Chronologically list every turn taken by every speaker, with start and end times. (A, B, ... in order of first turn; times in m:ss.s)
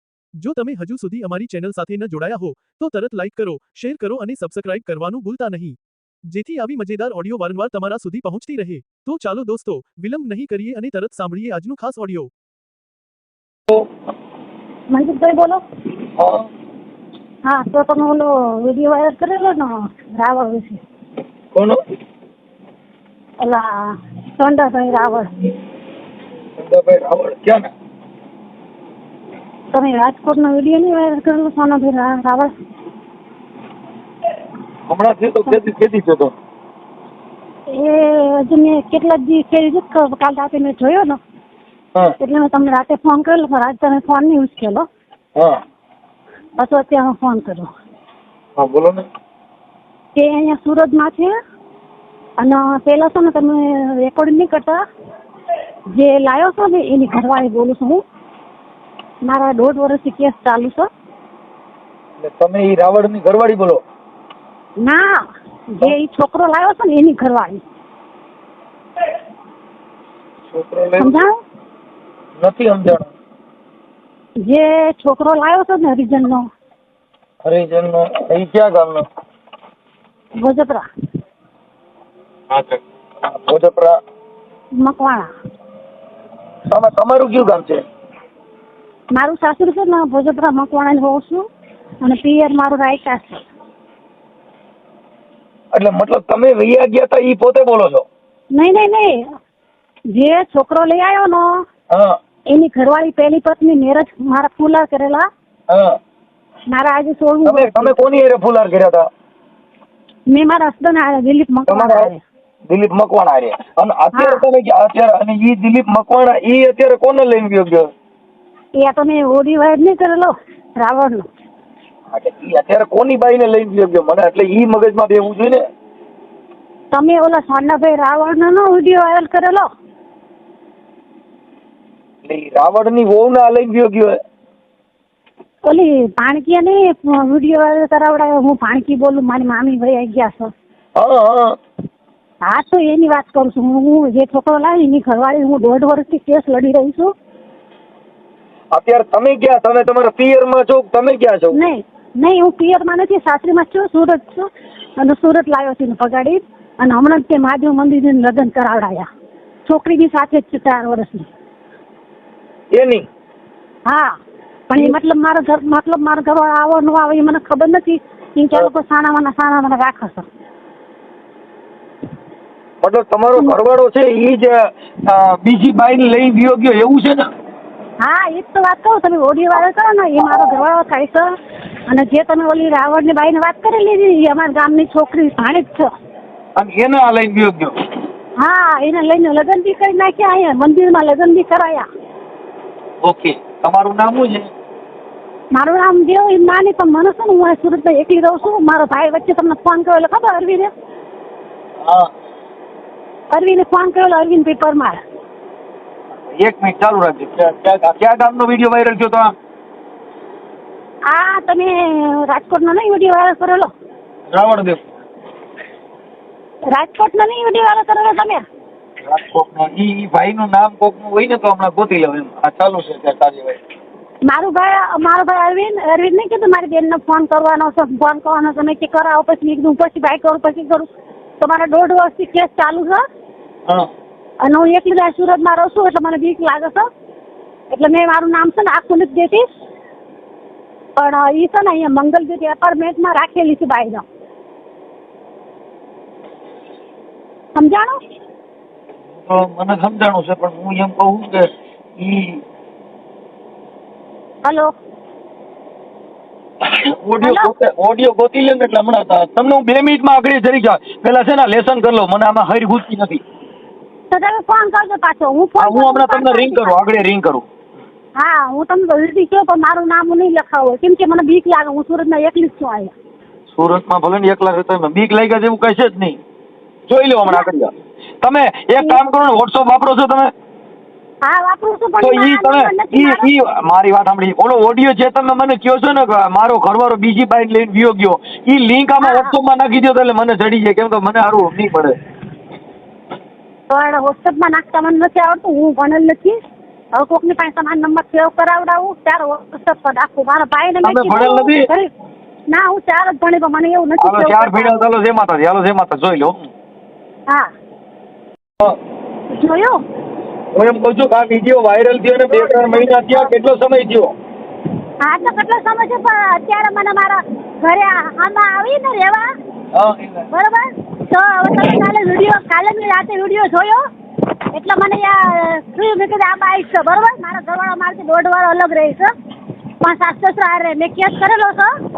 0:00.4-0:05.8 A
0:06.3-0:12.3 A
0:14.9-0:15.6 B
0:16.2-0:16.5 C
0:17.5-0:20.8 B
0:21.5-0:21.8 C
0:23.4-0:25.4 B
0:26.6-0:27.7 C
0:29.7-0:32.5 B
0:34.9-0:36.3 C
0:37.7-0:41.2 B
0:42.2-0:44.9 B
0:46.6-0:47.7 B
0:48.6-0:49.1 C
0:50.2-0:51.3 B
0:52.4-0:54.8 B
0:56.0-0:58.0 B
0:59.2-1:00.9 B
1:02.2-1:03.8 C
1:04.8-1:07.6 B
1:10.5-1:11.2 C
1:11.0-1:11.3 B
1:12.4-1:13.1 C
1:14.4-1:16.5 B
1:17.4-1:19.0 C
1:20.4-1:20.9 B
1:22.5-1:24.0 C
1:24.8-1:25.3 B
1:26.7-1:27.8 C
1:29.1-1:31.4 B
1:32.0-1:33.4 B
1:35.7-1:38.1 C
1:38.6-1:39.2 B
1:40.1-1:41.6 B
1:41.9-1:42.2 C
1:42.5-1:45.3 B
1:45.7-1:46.0 C
1:46.7-1:48.0 B
1:47.4-1:49.1 C
1:50.3-1:52.2 B
1:51.7-1:52.1 C
1:52.7-1:57.9 C
1:54.1-1:54.4 B
1:58.8-2:01.3 B
2:02.1-2:05.6 C
2:06.9-2:09.7 B
2:12.2-2:14.2 C
2:15.6-2:20.5 B
2:21.0-2:21.6 C
2:22.4-2:27.1 B
2:28.7-2:31.6 C
2:31.5-2:39.0 B
2:39.7-2:41.3 B
2:42.7-2:43.0 C
2:43.9-2:44.1 B
2:44.7-2:50.3 B
2:52.8-2:57.3 C
2:58.0-3:01.3 B
3:01.9-3:05.9 B
3:06.6-3:07.7 C
3:08.4-3:11.9 B
3:13.0-3:14.5 C
3:15.5-3:20.7 B
3:21.8-3:22.1 C
3:23.3-3:25.0 B
3:26.3-3:29.3 C
3:31.1-3:33.7 B
3:34.3-3:34.8 C
3:36.7-3:38.4 B
3:39.0-3:43.6 C
3:44.3-3:50.9 B
3:51.4-3:53.0 B
3:54.4-3:56.9 B
3:57.7-3:59.5 B
4:01.0-4:04.0 B
4:07.6-4:08.0 B
4:09.2-4:12.4 C
4:14.4-4:14.7 B
4:16.6-4:23.2 C
4:17.2-4:17.5 B
4:24.1-4:26.8 B
4:25.6-4:27.5 C
4:28.2-4:32.9 B
4:33.5-4:36.2 C
4:36.9-4:40.3 C
4:41.2-4:43.3 B
4:42.0-4:52.0 C
4:49.0-4:49.3 B
4:53.7-4:56.4 B
4:56.9-5:01.9 B
5:00.8-5:01.7 C
5:02.5-5:04.8 B
5:04.0-5:06.5 C
5:09.4-5:09.8 B
5:10.5-5:14.1 C
5:12.3-5:13.3 B
5:15.0-5:19.3 B
5:19.7-5:20.2 C
5:20.3-5:23.8 B
5:21.5-5:21.8 C
5:24.5-5:29.1 B
5:29.8-5:31.7 B